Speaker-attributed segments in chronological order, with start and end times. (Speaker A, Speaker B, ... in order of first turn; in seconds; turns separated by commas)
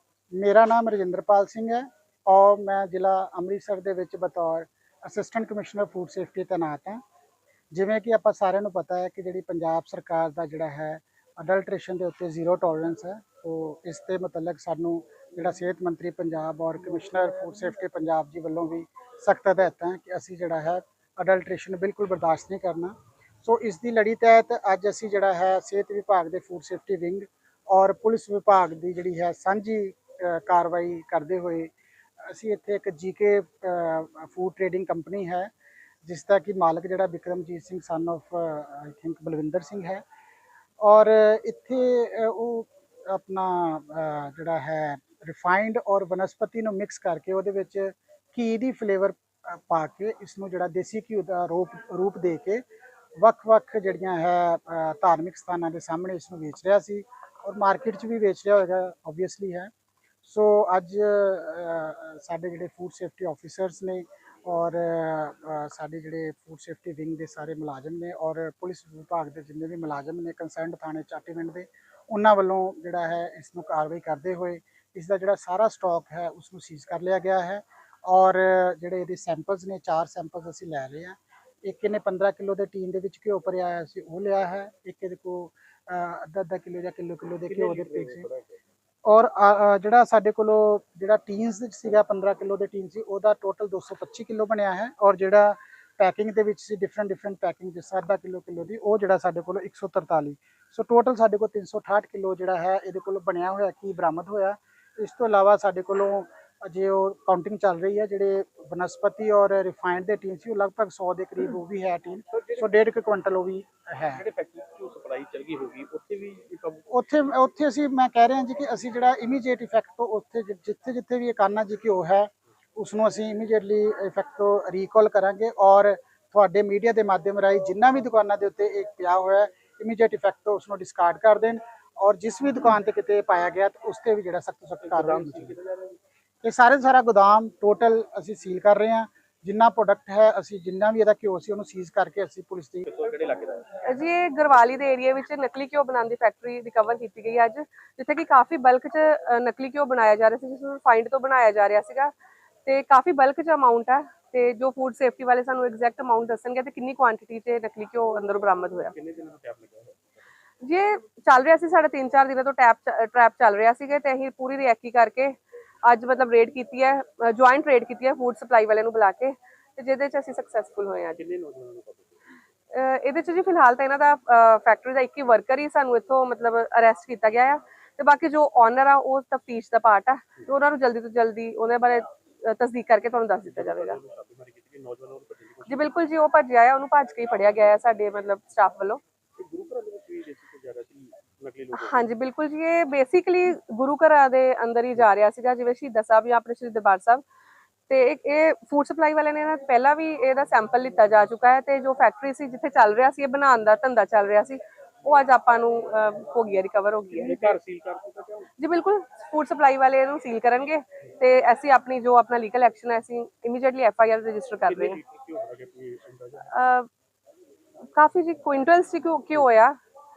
Speaker A: 0.3-7.0, Speaker A: 7.7-35.5, Speaker A: 36.0-40.0, Speaker A: 40.8-52.6, Speaker A: 53.2-59.7, Speaker A: 60.2-88.3, Speaker B: 87.5-88.6, Speaker A: 89.0-114.2, Speaker B: 112.3-112.7, Speaker B: 114.1-116.9, Speaker A: 116.9-135.6, Speaker B: 134.8-135.7, Speaker A: 136.4-142.8, Speaker B: 142.8-143.7, Speaker C: 143.8-152.1, Speaker C: 152.7-158.9, Speaker B: 158.9-160.0, Speaker C: 160.6-171.2, Speaker B: 171.2-172.1, Speaker C: 172.7-184.0, Speaker B: 183.5-186.0, Speaker C: 185.7-189.0, Speaker B: 189.4-192.1, Speaker C: 191.7-197.2, Speaker C: 197.9-207.6, Speaker B: 207.1-208.5, Speaker C: 208.6-215.0, Speaker B: 214.6-216.5, Speaker C: 216.5-216.9, Speaker C: 217.9-219.8